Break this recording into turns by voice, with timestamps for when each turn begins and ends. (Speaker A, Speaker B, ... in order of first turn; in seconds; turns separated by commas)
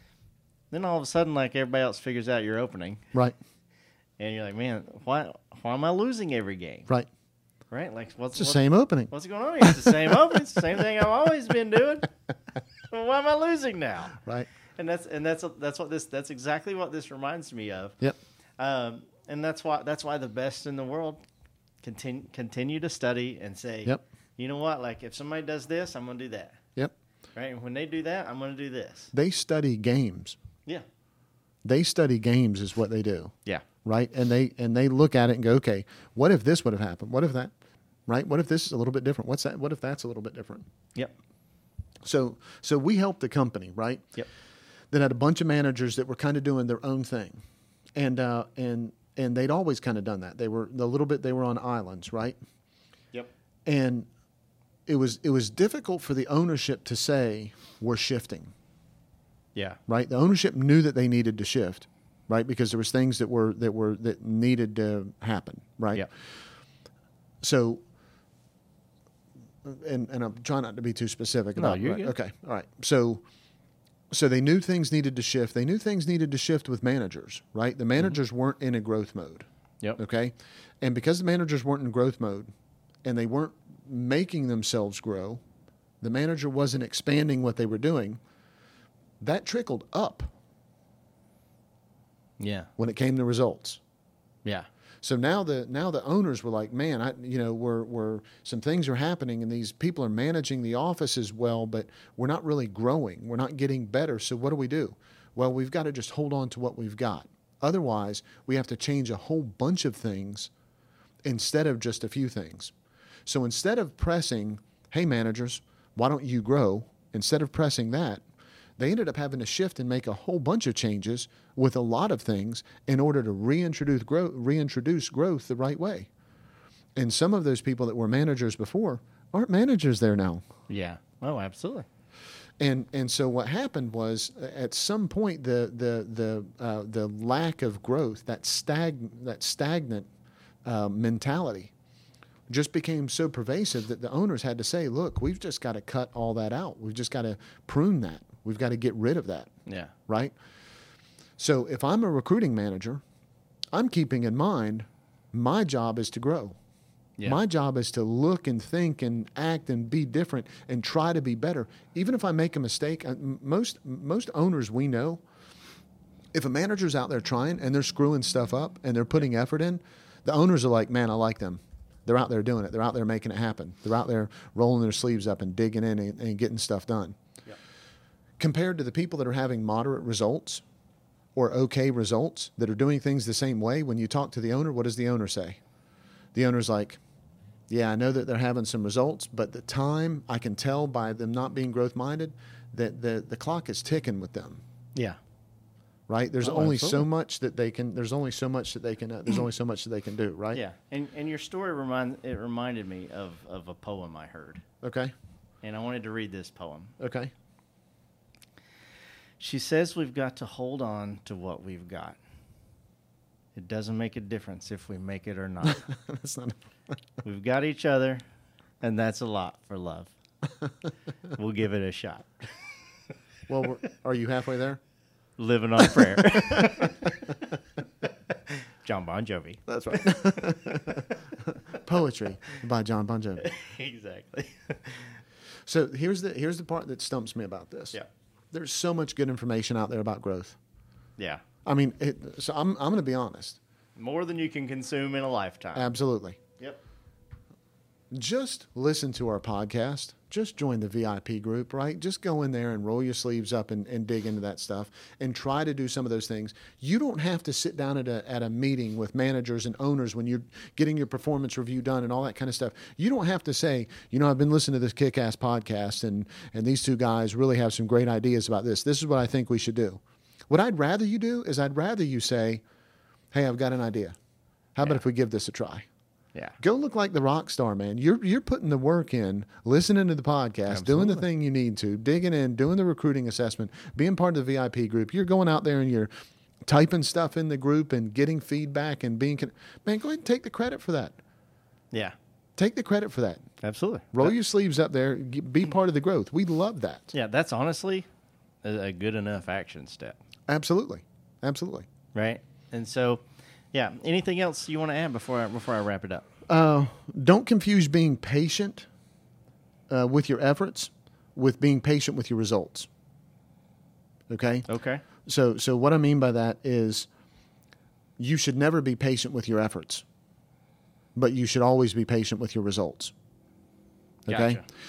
Speaker A: 0.7-3.0, Speaker A: 4.2-6.9, Speaker A: 7.7-12.1, Speaker B: 8.3-10.1, Speaker A: 12.9-14.2, Speaker B: 14.2-14.5, Speaker A: 14.8-18.0, Speaker A: 18.6-21.2, Speaker A: 21.8-26.6, Speaker A: 27.4-29.1, Speaker B: 29.1-30.4, Speaker B: 31.6-33.3, Speaker B: 33.8-37.5, Speaker B: 38.1-40.6, Speaker B: 42.0-44.1, Speaker B: 44.9-47.4, Speaker B: 48.0-52.4, Speaker B: 53.6-54.1, Speaker B: 54.9-58.5, Speaker B: 59.9-66.1, Speaker B: 67.4-67.8, Speaker B: 69.6-73.2, Speaker A: 71.5-72.1, Speaker B: 74.1-82.5, Speaker B: 83.0-85.4, Speaker B: 86.0-88.2, Speaker B: 89.2-90.3, Speaker A: 92.4-92.7, Speaker B: 92.8-93.8, Speaker B: 95.0-110.5, Speaker B: 111.2-112.7, Speaker B: 113.2-118.2, Speaker B: 118.8-126.1, Speaker B: 127.0-130.4, Speaker A: 130.7-131.9, Speaker B: 132.6-140.1, Speaker B: 140.6-141.7, Speaker B: 142.5-149.5, Speaker A: 149.7-149.9, Speaker B: 150.1-150.3, Speaker B: 151.4-153.0, Speaker B: 153.7-156.6, Speaker B: 157.2-165.2, Speaker B: 166.3-177.2, Speaker B: 178.4-180.6, Speaker B: 181.3-185.6, Speaker B: 186.3-187.0, Speaker B: 187.7-194.6, Speaker B: 196.1-200.6, Speaker A: 196.4-197.0, Speaker A: 200.5-204.6, Speaker B: 204.8-205.1, Speaker A: 205.6-206.9, Speaker B: 207.0-207.3, Speaker A: 209.4-212.2, Speaker A: 213.5-215.9, Speaker B: 215.6-216.6, Speaker A: 217.2-218.2, Speaker A: 218.8-220.1, Speaker A: 221.3-222.3, Speaker B: 223.5-224.8, Speaker A: 225.4-227.3, Speaker B: 225.9-227.1, Speaker A: 228.8-231.1, Speaker B: 229.7-233.5, Speaker A: 233.4-235.1, Speaker B: 235.7-238.0, Speaker B: 238.5-240.6, Speaker B: 241.6-243.6, Speaker A: 243.9-245.9, Speaker B: 245.7-246.4, Speaker B: 248.1-272.6, Speaker B: 273.3-274.1, Speaker B: 274.7-275.9, Speaker B: 276.6-286.1, Speaker A: 280.7-281.2, Speaker B: 286.6-291.2, Speaker B: 292.6-293.4, Speaker A: 293.6-294.4, Speaker B: 294.1-297.1, Speaker A: 297.1-298.1, Speaker A: 298.6-300.2, Speaker B: 300.5-301.9, Speaker A: 302.1-306.3, Speaker B: 306.5-308.9, Speaker B: 309.9-312.9, Speaker B: 314.3-314.7, Speaker A: 314.7-315.0, Speaker B: 315.2-317.1, Speaker B: 318.2-320.0, Speaker B: 321.1-323.1, Speaker B: 324.2-324.6, Speaker A: 324.3-324.6